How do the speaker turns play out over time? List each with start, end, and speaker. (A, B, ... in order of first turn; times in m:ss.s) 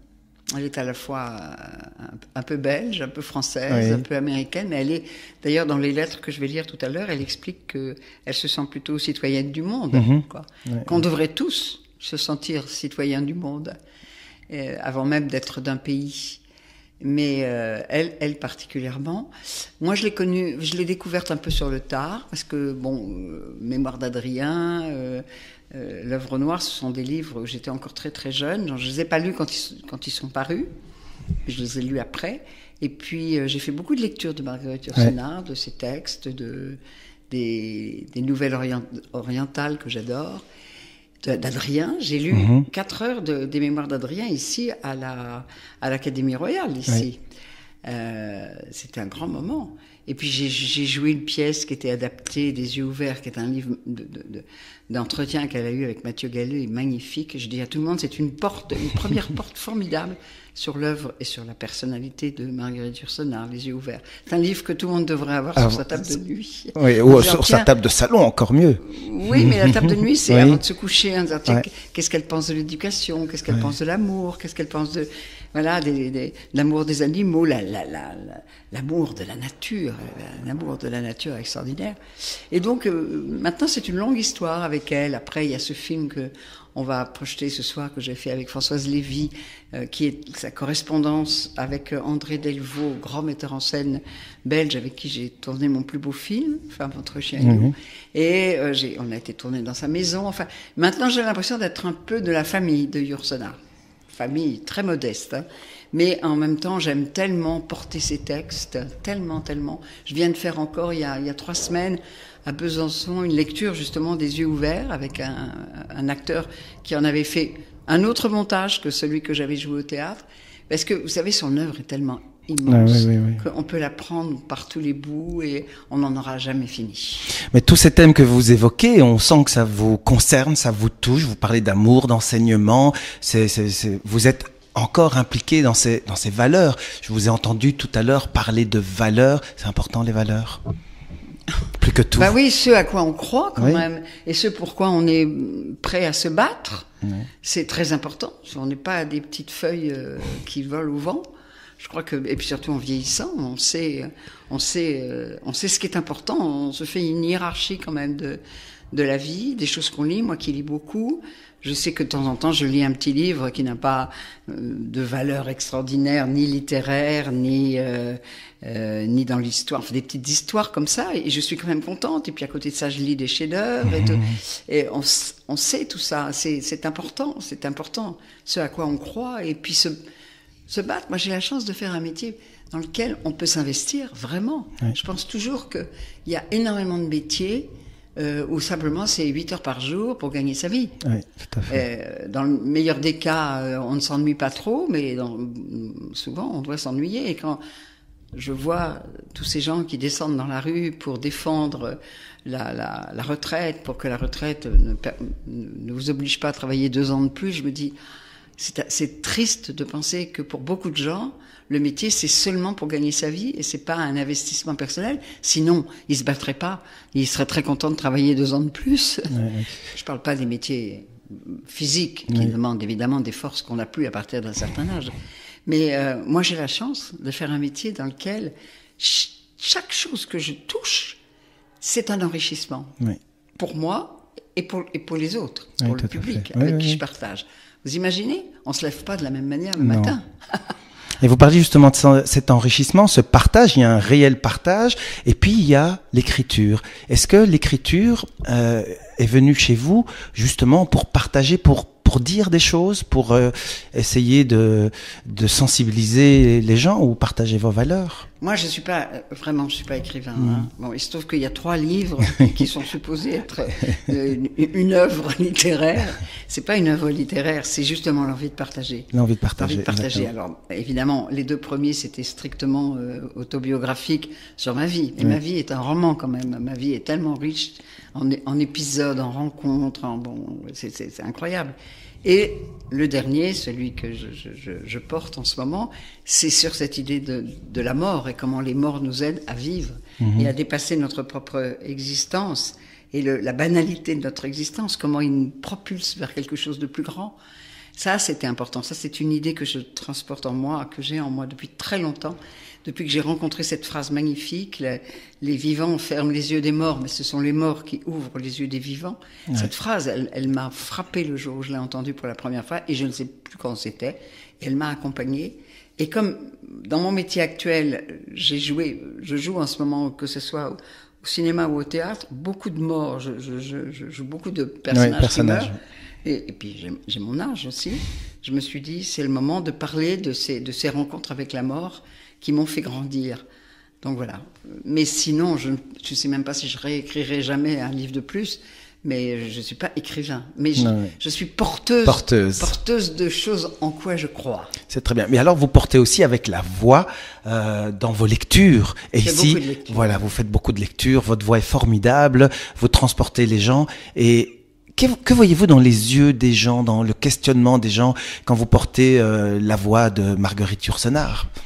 0:00.5-0:13.7 A
0:03.7-0:04.0 B
0:09.9-0:11.0 B
0:14.5-0:16.4 A
0:17.0-0:30.7 A
0:31.5-0:36.8 A
0:37.3-0:40.4 A
0:41.2-0:47.2 A
0:42.3-0:42.7 B
0:47.8-1:07.7 A
1:05.6-1:06.0 B
1:06.8-1:10.6 B
1:08.8-1:22.0 A
1:22.5-1:43.6 A
1:37.4-1:37.7 B
1:44.1-2:07.4 A
2:02.7-2:03.4 B
2:07.4-2:20.6 B
2:21.8-2:22.3 B
2:22.2-2:26.9 A
2:23.6-2:23.8 B
2:27.0-2:27.3 B
2:27.4-2:31.3 A
2:31.8-2:38.4 A
2:38.9-3:00.0 A
3:00.7-3:11.0 A
3:11.0-3:11.8 B
3:11.7-3:17.6 A
3:18.3-3:28.0 A
3:28.6-3:45.1 A
3:39.3-3:39.7 B
3:42.3-3:42.5 B
3:45.7-3:51.2 A
3:51.8-3:52.9 A
3:53.6-4:00.6 A
3:55.8-3:57.0 B
3:59.8-4:00.2 B
4:01.2-4:18.3 B
4:18.4-4:57.4 A
4:20.4-4:20.7 B
4:29.1-4:30.3 B
4:50.2-4:50.5 B
4:58.0-5:33.4 A
5:24.9-5:25.7 B
5:34.0-5:44.7 A
5:40.8-5:41.2 B
5:42.0-5:42.8 B
5:44.9-6:01.5 B
5:49.2-5:50.3 A